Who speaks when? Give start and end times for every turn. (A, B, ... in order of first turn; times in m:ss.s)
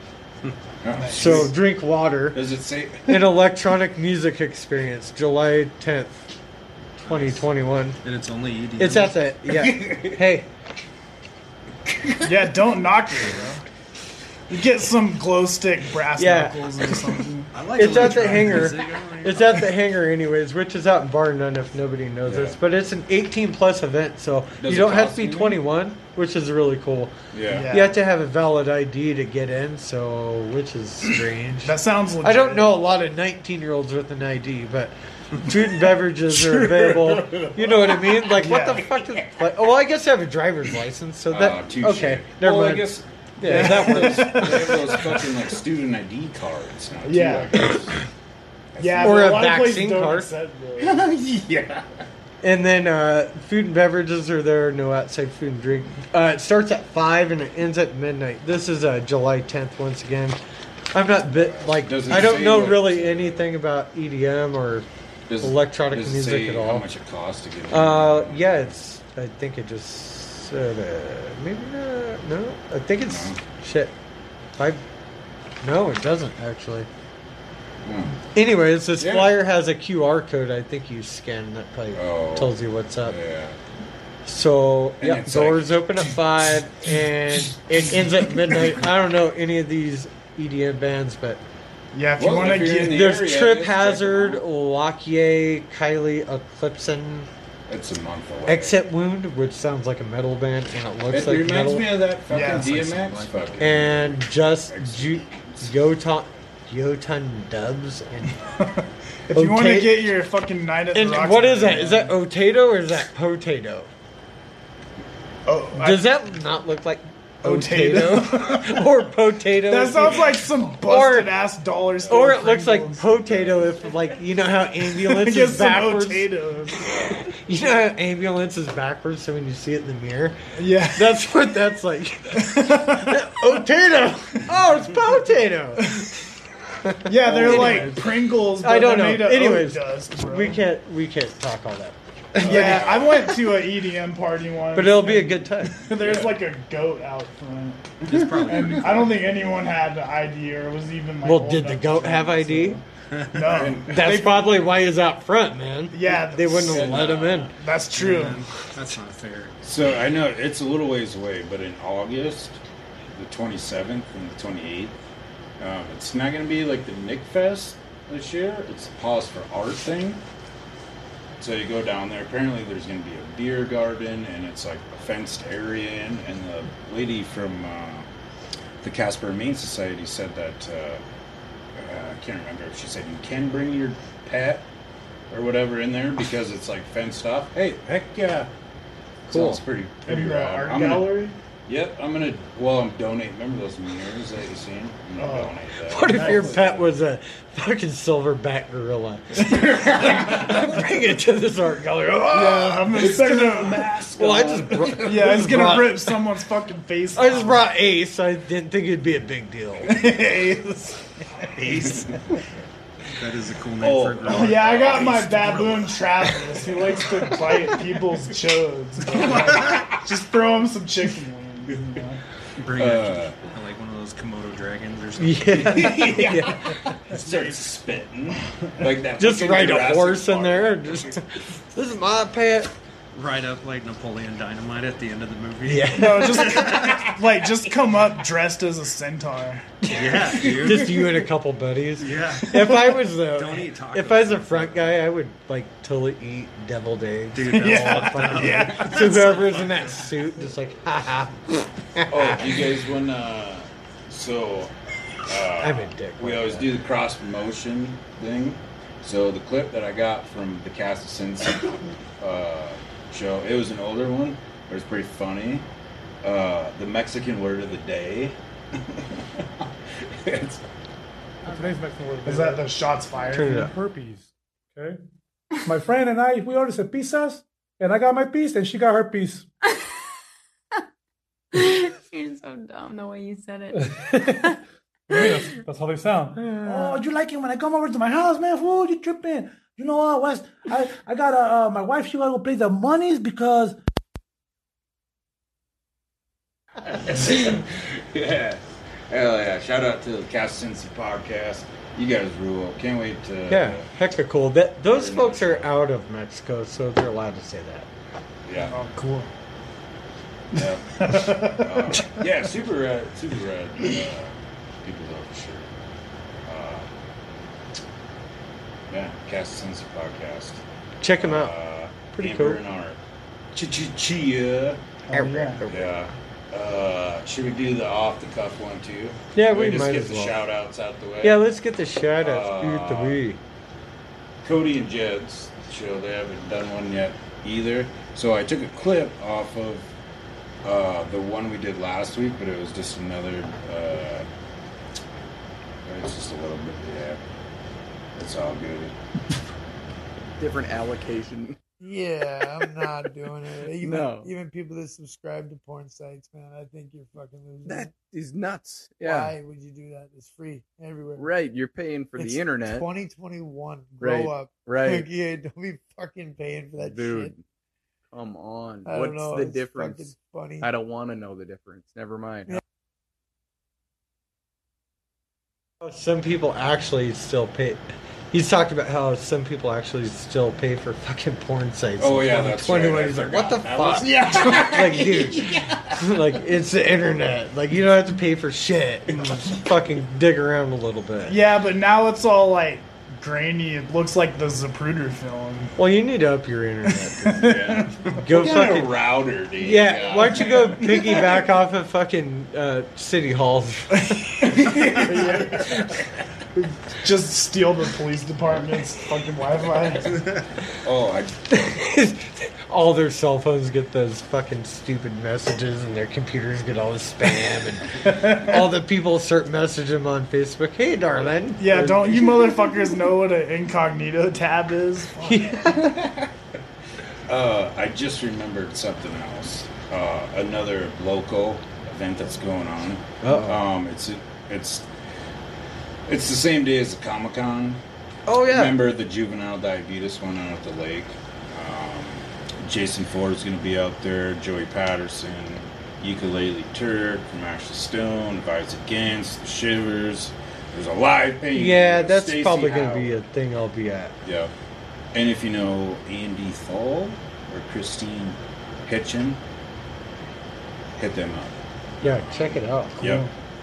0:00.8-0:01.6 A
0:00.9-0:01.5 B
0:01.1-0:02.4 C
0:02.3-0:03.2 A
0:03.0-0:06.2 C
0:07.0-0:08.0 C
0:08.0-0:09.2 D
0:08.8-0:10.5 C
0:09.5-0:10.2 A
0:12.0-0:12.4 A
0:12.2-0:13.6 B
0:14.5-0:17.5 B
0:16.2-0:16.6 C
0:17.5-0:19.7 D
0:17.8-0:27.1 C
0:22.2-0:22.6 A
0:24.6-0:25.6 A
0:27.3-0:27.7 A
0:27.5-0:28.0 B
0:27.7-0:45.1 C
0:31.6-0:32.8 B
0:36.3-0:38.3 A
0:38.3-0:38.9 B
0:41.3-0:48.0 A
0:43.4-0:44.5 B
0:47.0-0:47.8 B
0:48.7-0:49.5 A
0:48.8-0:51.1 B
0:49.0-0:50.3 C
0:50.8-0:52.0 A
0:52.4-1:00.4 C
1:00.9-1:04.8 C
1:01.2-1:03.5 A
1:05.3-1:08.8 A
1:05.4-1:06.9 C
1:07.7-1:13.9 C
1:13.0-1:13.4 A
1:14.6-1:14.8 C
1:15.6-1:16.9 C
1:17.8-1:18.2 A
1:18.3-1:23.2 C
1:19.0-1:19.4 A
1:21.9-1:23.6 A
1:24.2-1:31.4 C
1:25.0-1:26.1 A
1:31.9-1:33.0 B
1:32.2-1:34.4 A
1:32.8-1:37.3 C
1:37.7-1:38.8 A
1:38.4-1:42.1 C
1:41.1-1:45.7 A
1:42.3-1:42.7 B
1:42.3-1:43.6 D
1:43.6-1:48.4 C
1:48.6-1:52.1 B
1:49.3-1:50.1 C
1:50.9-1:53.9 C
1:55.4-1:56.2 B
1:55.8-2:01.4 C
1:57.4-1:59.0 B
1:59.6-2:03.2 B
2:02.1-2:06.3 C
2:03.3-2:03.7 A
2:04.9-2:06.9 B
2:07.1-2:16.0 C
2:10.6-2:11.2 B
2:12.4-2:13.2 B
2:16.8-2:23.2 C
2:17.0-2:20.6 B
2:17.3-2:17.9 A
2:22.4-2:23.4 A
2:22.4-2:34.6 B
2:24.7-2:25.8 C
2:26.0-2:26.4 A
2:28.1-2:29.2 D
2:28.1-2:28.7 A
2:31.2-2:32.8 C
2:33.2-2:33.6 D
2:33.3-2:34.5 A
2:33.9-2:37.5 C
2:35.9-2:38.4 B
2:36.5-2:37.5 A
2:37.9-2:39.5 D
2:39.6-2:42.6 A
2:43.1-2:45.0 A
2:45.6-2:50.2 A
2:51.4-2:58.1 A
2:58.8-3:01.0 A
3:01.7-3:04.7 A
3:05.3-3:08.5 A
3:09.3-3:16.9 A
3:09.3-3:09.6 C
3:10.0-3:11.3 B
3:15.2-3:16.5 B
3:15.9-3:23.6 C
3:19.5-3:20.6 A
3:22.3-3:27.7 B
3:22.9-3:25.4 A
3:24.1-3:26.2 C
3:27.1-3:30.1 C
3:29.9-3:30.8 B
3:31.6-3:32.2 D
3:33.1-3:36.0 D
3:33.8-3:35.7 A
3:34.2-3:42.2 B
3:39.2-3:39.9 A
3:42.6-3:46.2 D
3:42.7-3:43.4 A
3:45.2-3:46.8 C
3:45.5-3:51.2 A
3:47.1-3:47.5 D
3:49.2-3:52.7 C
3:53.1-3:57.0 D
3:55.6-3:56.8 C
3:55.9-3:59.7 B
3:59.9-4:12.4 C
3:59.9-4:01.0 D
4:02.0-4:05.0 D
4:07.3-4:09.9 D
4:07.5-4:09.6 B
4:12.1-4:14.7 A
4:15.2-4:25.6 A
4:15.6-4:16.7 C
4:26.2-4:30.6 A
4:31.4-4:32.8 E
4:32.2-4:33.7 B
4:33.3-4:33.7 C
4:33.3-4:35.0 E
4:35.6-4:39.5 E
4:41.6-4:43.8 F
4:45.1-4:53.8 E
4:56.9-5:03.9 A
5:03.5-5:07.9 C
5:04.8-5:05.7 A
5:08.4-5:08.7 A
5:08.7-5:09.3 B
5:10.5-5:15.7 A
5:10.6-5:12.0 B
5:16.4-5:16.9 A
5:18.9-5:20.6 A
5:21.0-5:21.5 C
5:21.1-5:23.0 A
5:22.1-5:22.6 C
5:23.5-5:24.8 A
5:25.1-5:25.6 B
5:25.1-5:25.9 C
5:25.7-5:31.4 A
5:29.3-5:30.4 C
5:31.2-5:33.4 C
5:32.2-5:33.2 A
5:34.4-5:39.9 A
5:40.6-5:44.3 A
5:45.8-5:47.2 A
5:48.2-5:48.9 A
5:50.4-5:51.6 G
5:51.8-5:57.7 H
5:52.5-5:52.9 G
5:52.6-5:52.9 E
5:53.6-5:54.3 G
5:57.6-5:59.4 G
5:59.4-6:01.1 H
6:01.2-6:02.9 G
6:02.7-6:07.3 H
6:04.0-6:05.1 G
6:06.7-6:07.4 G
6:08.1-6:12.6 G
6:08.8-6:10.6 H
6:15.8-6:31.4 C
6:22.0-6:25.5 A
6:31.2-6:35.7 B
6:35.8-6:37.5 C
6:37.0-6:38.0 B
6:37.4-6:41.2 A
6:38.1-6:45.9 C
6:44.5-6:45.2 A
6:44.8-6:45.7 B
6:46.9-6:50.3 B
6:50.8-6:51.6 A
6:51.5-7:02.6 C
6:58.1-6:58.6 B
7:01.6-7:05.8 B
7:05.2-7:06.1 C
7:07.3-7:14.9 A
7:13.2-7:13.6 C
7:16.1-7:17.8 A
7:18.3-7:18.8 C
7:18.4-7:33.2 A
7:31.5-7:34.1 C
7:34.2-7:34.5 A
7:35.1-7:39.4 A
7:41.0-7:43.3 A
7:42.0-7:43.2 C
7:43.0-7:43.3 B